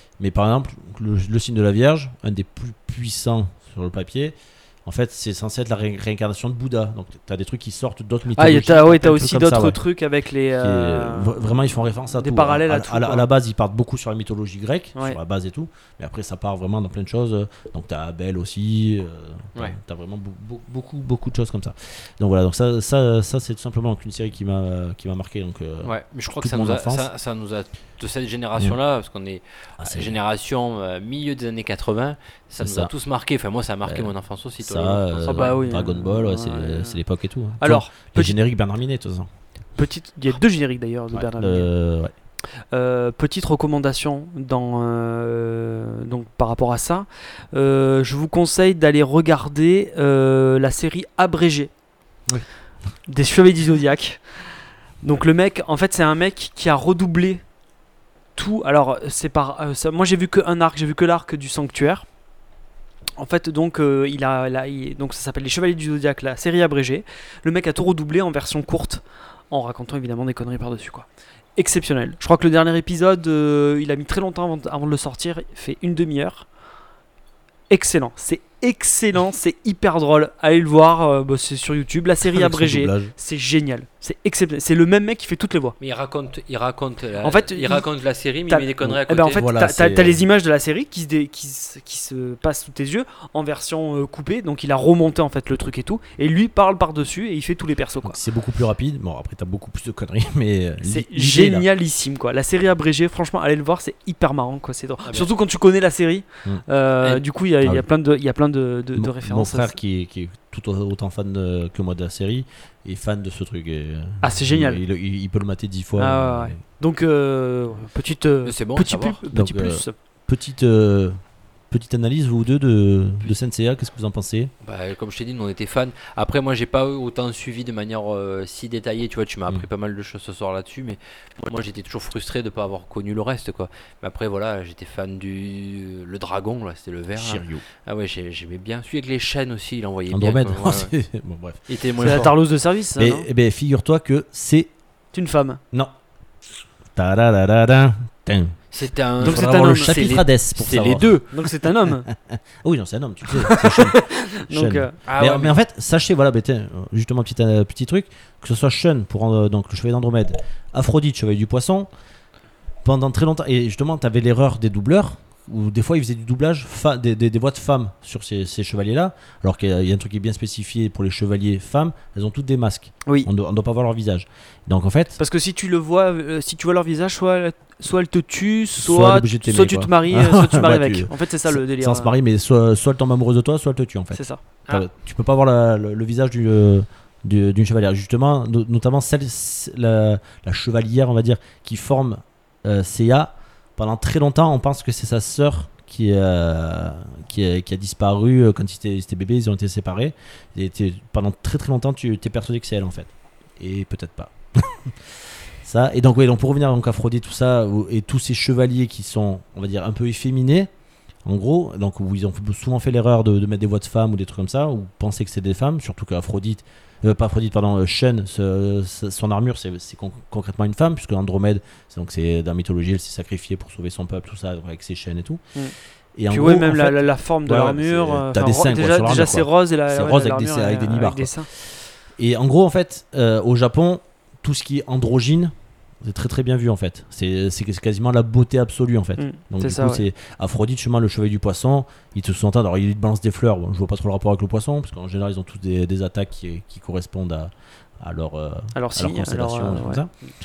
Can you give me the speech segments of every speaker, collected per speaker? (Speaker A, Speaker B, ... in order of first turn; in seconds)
Speaker A: 0.2-9.8, 10.6-27.1, 29.8-30.2, 32.6-32.9, 33.8-39.3, 41.1-42.1, 82.2-83.1, 89.3-90.2, 98.0-101.7, 107.6-107.9, 108.9-116.6, 119.3-121.2, 121.7-124.5, 137.2-137.6, 140.1-142.3, 142.9-144.7, 146.9-148.6, 149.2-151.2, 152.1-161.9, 162.8-175.2, 178.8-204.9, 205.6-210.7, 211.2-225.4, 226.2-235.5, 236.0-250.1
Speaker B: 8.3-13.3, 35.2-37.0, 37.6-38.4, 39.8-41.7, 42.7-51.7, 53.0-54.5, 55.0-57.4, 58.3-62.1, 63.2-76.5, 77.7-85.8, 87.2-87.8, 88.5-98.2, 100.8-109.8, 114.2-114.8, 116.0-119.9, 142.0-143.3, 145.1-145.6, 149.2-150.0, 151.3-152.1, 154.4-155.0, 173.0-173.3, 175.2-182.1, 184.1-184.4, 226.3-231.5, 239.2-240.1, 248.7-250.0
Speaker C: 25.8-35.7, 85.8-89.5, 118.4-119.2, 124.6-140.9, 141.7-142.3, 148.7-151.3, 155.1-155.6